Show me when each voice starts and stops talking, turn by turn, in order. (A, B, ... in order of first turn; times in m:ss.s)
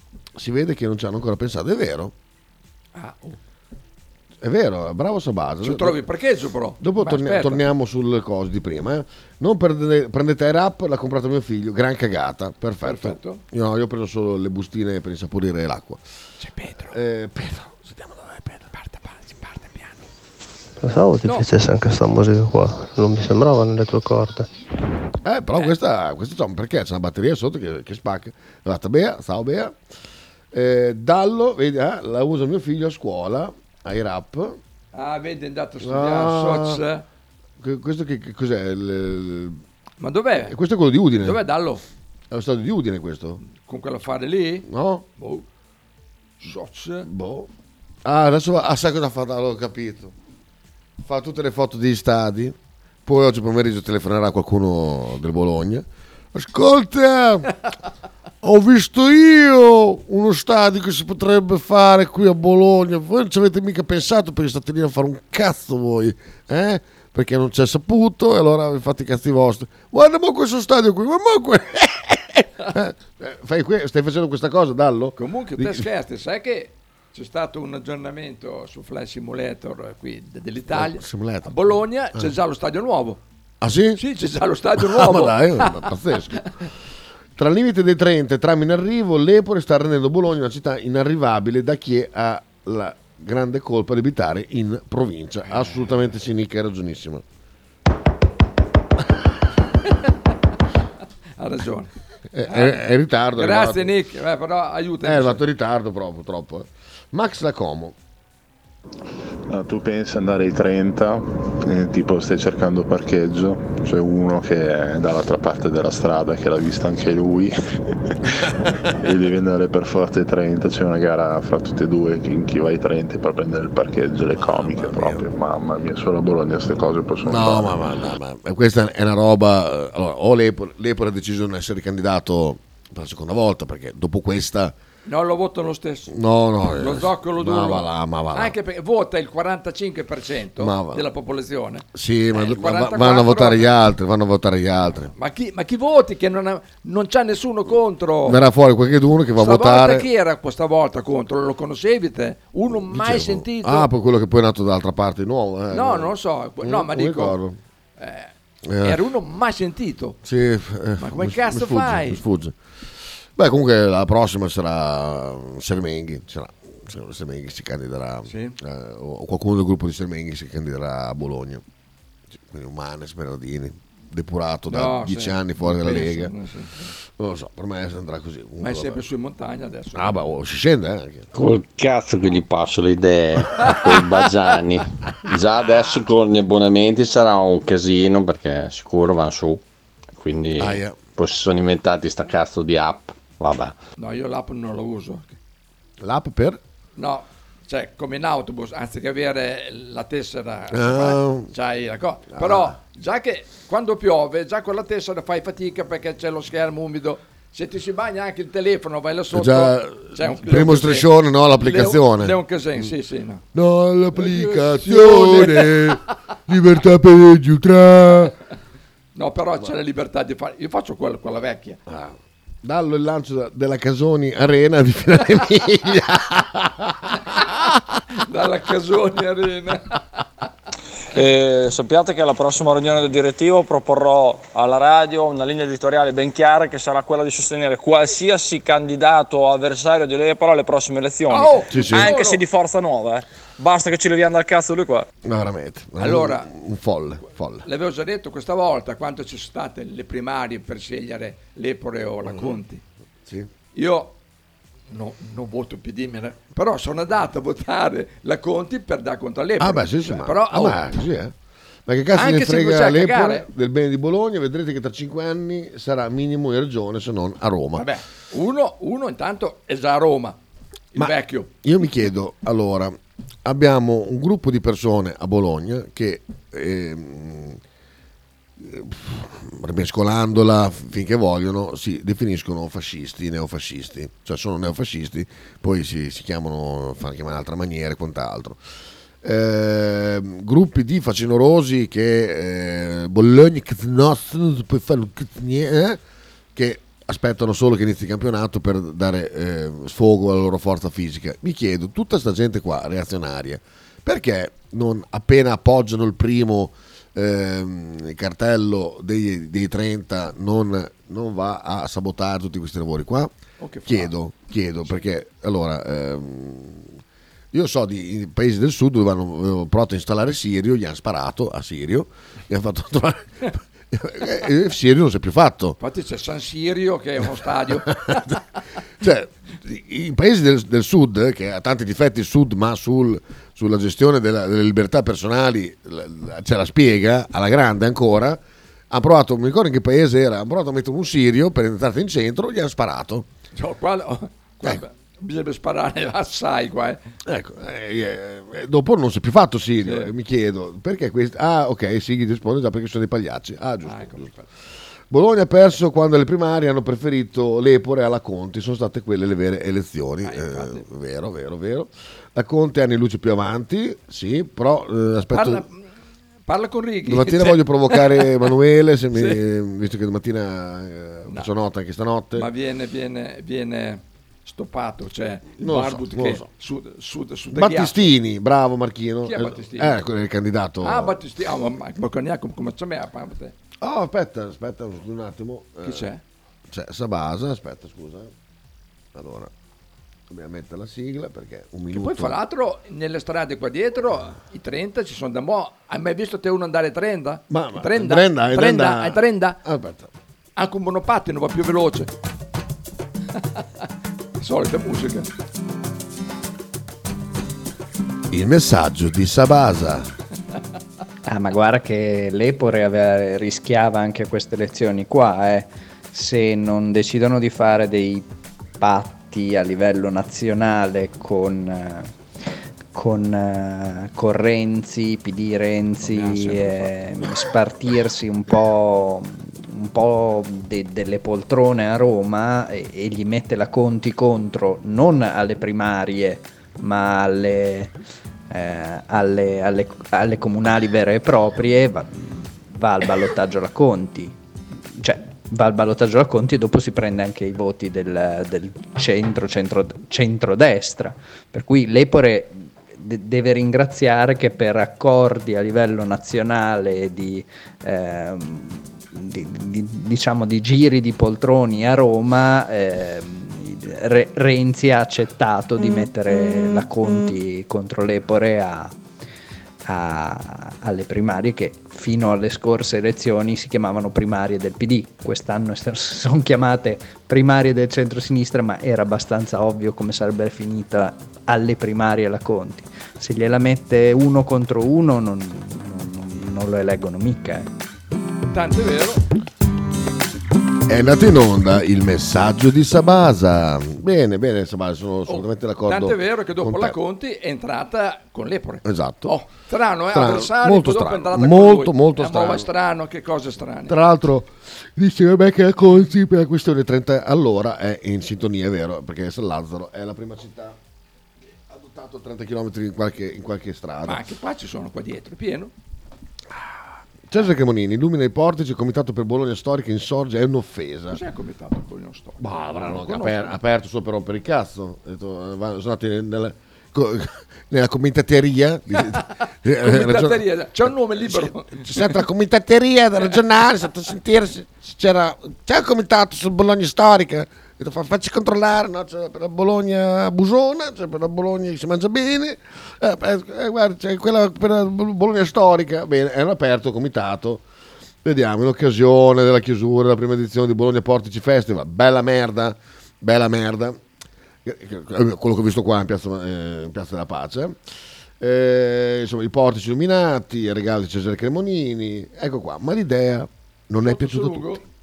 0:00.4-0:02.1 A
0:02.9-0:03.4 B
0:04.4-0:06.0 A
0:05.6-0:07.6 B
0:06.8-0:16.0 A
0:12.8-0:13.4 B
0:16.4-0:16.9 B
0:16.9-0:18.7 A
0:18.7-0:20.0 B
0:20.8-0:24.5 C
0:25.2-0:29.8 A
0:30.5-0:34.6 A
0:34.9-0:37.0 B
0:35.8-0:36.8 A
0:37.6-0:39.6 A
0:40.0-0:40.5 B
0:40.4-0:41.4 A
0:41.2-0:41.8 B
0:42.3-0:43.4 A
0:43.4-0:45.4 B
0:44.6-0:45.0 A
0:46.4-0:47.1 B
0:47.0-0:47.5 A
0:48.0-0:50.1 A
0:51.0-0:57.5 A
0:58.4-1:15.8 A
1:15.2-1:23.2 B
1:20.7-1:21.5 A
1:23.6-1:24.0 A
1:24.0-1:25.9 B
1:24.8-1:26.7 A
1:27.4-1:37.2 A
1:35.5-1:35.9 B
1:41.4-1:41.9 B
1:42.3-1:43.9 A
1:42.5-1:42.8 B
1:43.3-1:45.4 B
1:45.0-1:48.0 A
1:49.5-1:57.6 D
1:58.4-2:07.8 D
2:04.3-2:05.3 A
2:07.2-2:14.7 A
2:15.0-2:23.7 B
2:16.1-2:18.5 A
2:20.6-2:21.1 A
2:21.9-2:25.1 A
2:25.1-2:28.4 B
2:28.2-2:30.1 A
2:29.4-2:33.9 B
2:32.7-2:37.6 A
2:35.7-2:37.4 B
2:38.0-2:40.2 B
2:38.6-2:39.0 A
2:40.2-2:42.6 A
2:41.0-2:42.2 B
2:43.3-2:51.6 A
2:48.2-2:48.6 B
2:52.3-2:56.3 A
2:54.7-2:56.9 B
2:57.1-2:59.0 A
2:58.6-3:00.3 B
2:59.9-3:01.4 A
3:01.3-3:09.6 E
3:03.6-3:03.8 B
3:10.2-3:13.8 E
3:10.6-3:11.0 A
3:14.0-3:15.4 B
3:16.0-3:16.6 A
3:17.0-3:33.4 B
3:20.7-3:21.5 A
3:22.3-3:22.8 A
3:29.3-3:32.9 A
3:33.5-3:38.3 A
3:34.1-3:36.0 B
3:39.1-3:41.8 B
3:41.9-3:47.3 A
3:47.3-3:50.2 B
3:51.1-4:05.1 F
4:01.3-4:02.4 B
4:01.7-4:02.1 A
4:05.2-4:07.6 A
4:06.0-4:06.5 B
4:07.6-4:12.8 B
4:12.2-4:12.6 A
4:13.2-4:13.5 A
4:13.7-4:14.1 B
4:14.9-4:20.8 B
4:19.6-4:21.3 A
4:21.8-4:27.9 A
4:22.1-4:23.5 B
4:27.7-4:30.4 B
4:30.9-4:31.5 B
4:31.0-4:37.6 A
4:38.6-4:48.6 A
4:49.2-4:56.0 A
4:56.5-5:13.3 A
5:13.6-5:14.1 B
5:13.8-5:17.0 A
5:17.5-5:25.8 A
5:25.8-5:28.2 B
5:27.8-5:28.4 A
5:29.0-5:43.3 A
5:43.5-5:47.0 B
5:47.2-5:54.3 A
5:49.8-5:50.1 B
5:53.8-5:54.4 B
5:55.1-6:05.6 A
6:00.2-6:00.8 B
6:05.3-6:05.8 B
6:06.5-6:08.3 B
6:07.0-6:12.5 A
6:09.1-6:09.4 B
6:12.3-6:18.1 B
6:15.6-6:16.5 A
6:17.5-6:21.2 A
6:19.2-6:20.0 B
6:20.8-6:23.5 B
6:23.8-6:26.1 A
6:25.8-6:26.2 B
6:26.7-6:28.3 A
6:29.1-6:29.5 A
6:30.3-6:32.4 A
6:31.9-6:39.6 B
6:37.5-6:40.1 A
6:40.6-6:42.1 B
6:44.4-6:45.3 B
6:48.3-6:50.1 A
6:51.3-6:58.3 G
6:58.8-7:02.1 G
7:02.9-7:17.9 G
7:06.0-7:07.3 B
7:18.5-7:24.3 G
7:24.9-7:49.0 G
7:49.8-8:07.7 G
8:08.5-8:09.2 B
8:10.9-8:17.0 A
8:15.3-8:24.0 B
8:18.8-8:19.3 A
8:20.1-8:22.7 A
8:23.9-8:30.8 A
8:31.6-8:34.2 A
8:34.0-8:35.7 B
8:36.5-8:41.2 A
8:41.1-8:43.6 B
8:42.4-9:07.6 A
8:49.8-8:52.2 B
9:08.2-9:14.0 A
9:14.6-9:17.8 A
9:18.4-9:24.8 A
9:24.0-9:24.8 B